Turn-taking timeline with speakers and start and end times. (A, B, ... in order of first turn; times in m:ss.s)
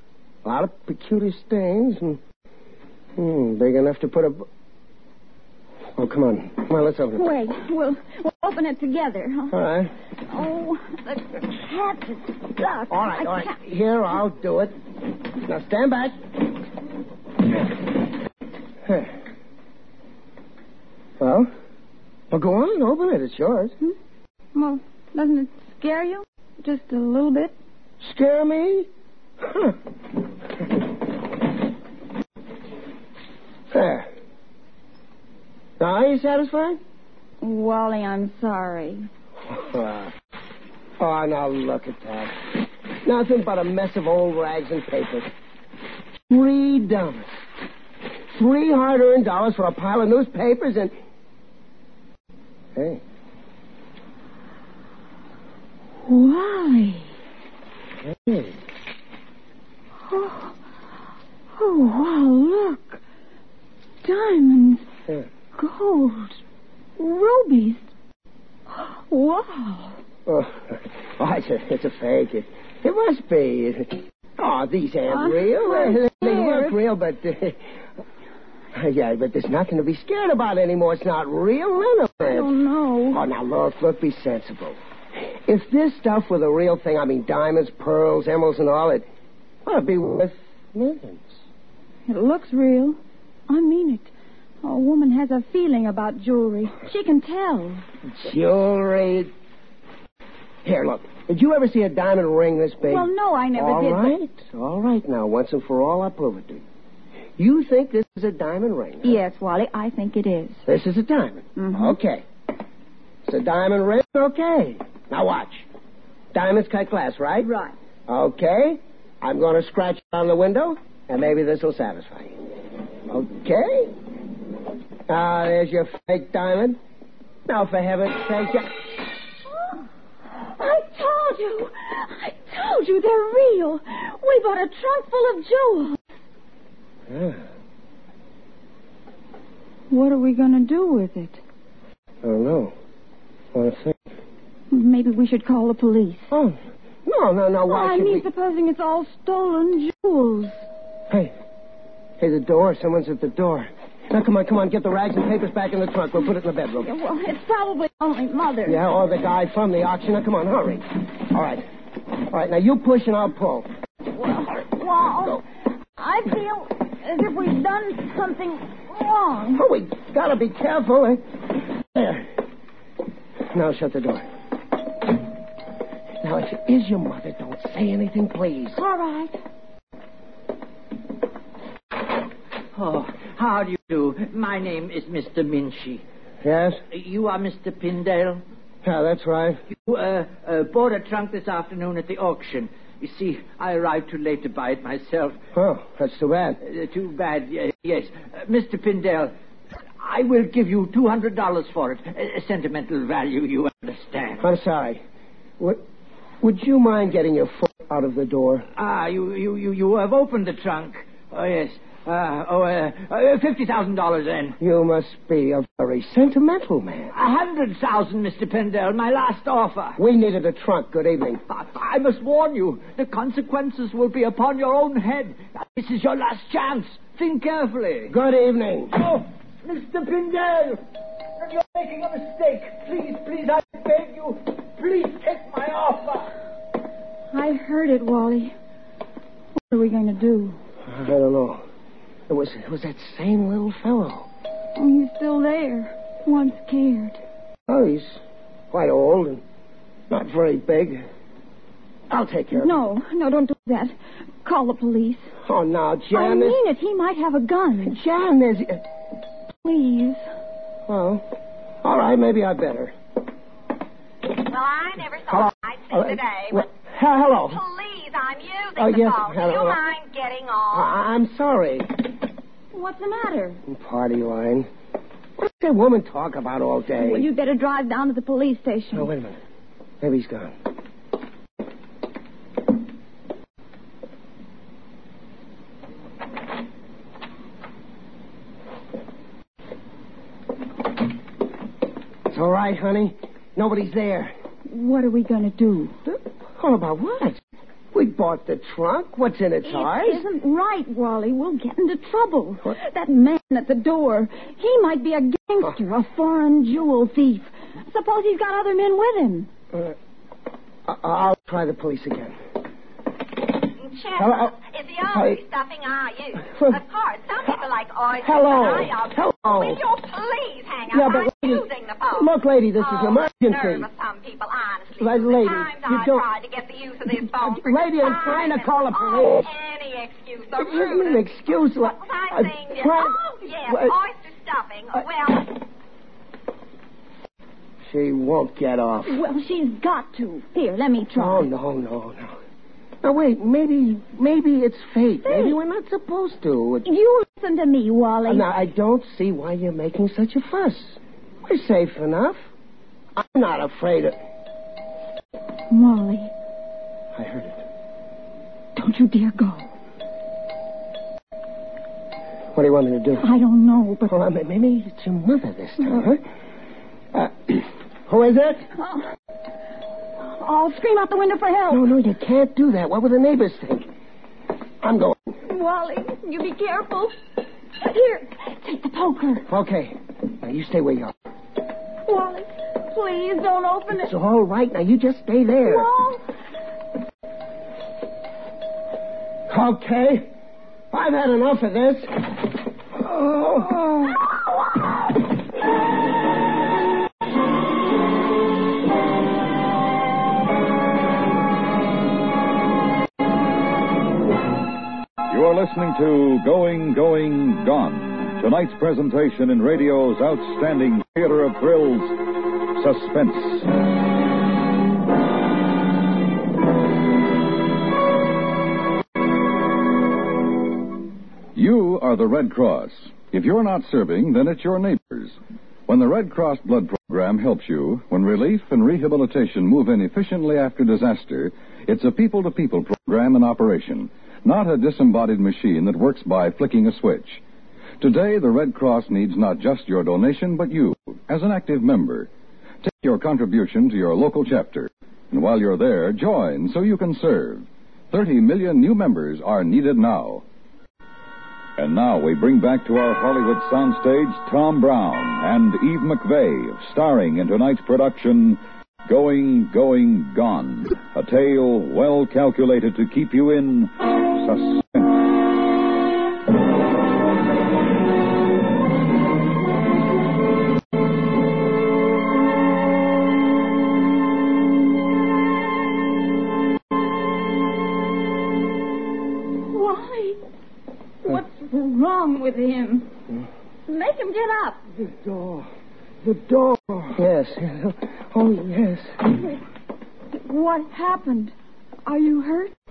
0:00.4-0:02.2 A
0:03.2-0:04.5 A
0:06.0-0:07.2 A
0:07.1-0:09.6 B
0:09.5-0:09.9 A
0:10.3-0:13.6 B
0:12.9-0:14.7 A
0:15.4-0:16.2 A
0:18.8-0:19.1 A
0:21.2-0:21.5 A
0:22.3-0:23.7 A
0:24.5-0:27.5 B
0:28.0-0:28.9 A
0:29.4-0:29.8 A
0:33.7-0:34.1 A
0:35.8-0:36.8 A
0:37.4-0:39.1 B
0:39.5-0:40.1 A
0:41.0-0:42.5 A
0:43.0-0:45.3 A
0:46.3-0:47.4 A
0:48.3-0:50.9 A
0:52.7-0:53.0 A
0:56.0-0:57.1 B
0:58.0-0:58.6 A
1:00.1-1:00.6 B
1:01.6-1:03.0 B
1:04.0-1:04.9 B
1:05.5-1:06.4 B
1:07.0-1:07.8 B
1:08.7-1:10.0 B
1:10.2-1:17.6 A
1:15.1-1:16.8 B
1:18.7-1:22.5 A
1:22.2-1:23.2 B
1:23.1-1:24.8 A
1:25.4-1:29.1 A
1:29.6-1:31.4 A
1:32.1-1:34.1 B
1:34.6-1:37.8 B
1:38.1-1:39.3 A
1:40.6-1:46.6 A
1:42.8-1:44.1 B
1:47.4-1:49.2 A
1:49.0-1:50.6 B
1:50.7-1:52.2 A
1:51.6-1:52.0 B
1:53.2-1:55.7 A
1:56.3-1:57.5 A
1:57.4-1:57.7 B
1:58.1-2:02.4 A
2:03.1-2:03.9 A
2:05.1-2:06.8 A
2:07.5-2:08.7 A
2:10.4-2:16.1 B
2:17.1-2:17.4 A
2:19.9-2:21.4 B
2:22.2-2:22.7 A
2:23.5-2:24.0 A
2:24.7-2:26.3 B
2:26.3-2:28.2 A
2:27.7-2:30.6 B
2:32.2-2:36.9 A
2:36.7-2:38.8 B
2:38.6-2:41.7 A
2:42.3-2:43.7 A
2:44.1-2:45.4 B
2:46.0-2:49.6 B
2:49.5-2:52.3 A
2:53.5-2:54.3 A
2:56.2-2:58.8 A
2:58.7-2:59.4 B
3:02.7-3:06.0 C
3:06.4-3:06.8 A
3:06.9-3:08.4 C
3:08.8-3:09.6 A
3:09.7-3:15.4 C
3:15.5-3:16.6 A
3:16.6-3:19.3 C
3:20.0-3:24.4 C
3:24.4-3:25.0 A
3:26.4-3:28.7 A
3:28.7-3:34.6 C
3:34.6-3:37.1 A
3:37.1-3:40.0 C
3:40.0-3:41.4 A
3:41.5-3:48.1 C
3:48.1-3:48.9 A
3:48.9-3:50.8 C
3:51.4-3:56.3 C
3:57.3-3:58.5 B
3:59.6-4:00.6 B
4:00.8-4:01.6 A
4:02.3-4:04.3 A
4:04.8-4:07.2 B
4:07.7-4:09.4 A
4:10.1-4:11.0 A
4:12.1-4:12.8 A
4:12.5-4:15.3 B
4:15.4-4:16.6 A
4:16.1-4:18.0 B
4:17.8-4:18.8 A
4:19.6-4:20.2 B
4:20.9-4:21.2 A
4:21.8-4:22.9 A
4:24.4-4:26.7 D
4:25.3-4:27.6 A
4:27.5-4:30.9 D
4:28.8-4:29.8 A
4:30.7-4:31.9 A
4:32.7-4:33.6 B
4:33.7-4:34.7 A
4:35.4-4:37.3 A
4:37.0-4:39.1 B
4:38.9-4:39.4 A
4:40.0-4:40.5 A
4:52.3-4:54.3 A
4:54.7-4:55.9 B
4:56.0-4:57.4 A
4:57.9-5:00.2 A
4:59.6-5:09.5 B
5:10.8-5:12.4 A
5:13.8-5:35.5 D
5:14.2-5:14.5 A
5:15.1-5:15.4 A
5:18.2-5:19.8 A
5:20.9-5:23.8 A
5:25.0-5:26.3 A
5:27.1-5:29.5 A
5:30.6-5:34.0 A
5:37.8-5:39.2 A
5:39.0-5:41.5 B
5:41.1-5:42.4 A
5:43.0-5:46.8 A
5:45.2-5:45.6 B
5:46.8-5:48.5 B
5:48.2-5:52.4 A
5:53.2-5:54.2 A
5:55.7-5:56.3 B
5:57.1-5:57.6 A
5:58.8-5:59.7 B
6:02.5-6:03.3 A
6:03.2-6:04.1 B
6:04.0-6:06.2 A
6:07.1-6:08.7 A
6:08.8-6:09.1 B
6:10.2-6:11.8 B
6:11.7-6:13.9 A
6:14.8-6:15.3 A
6:15.4-6:17.1 B
6:17.8-6:19.4 B
6:19.5-6:21.1 A
6:22.0-6:24.1 B
6:23.9-6:25.9 A
6:25.6-6:26.2 B
6:29.5-6:30.3 A
6:30.9-6:32.1 A
6:33.0-6:34.2 A
6:45.3-6:53.7 E
7:01.5-7:17.4 E
7:18.0-7:22.3 E
7:22.8-7:30.4 E
7:31.8-7:45.1 E
7:59.7-8:00.4 B
8:01.2-8:03.1 B
8:03.9-8:04.8 B
8:05.0-8:05.7 C
8:06.2-8:07.2 C
8:07.2-8:09.2 A
8:10.3-8:11.5 B
8:12.0-8:12.7 B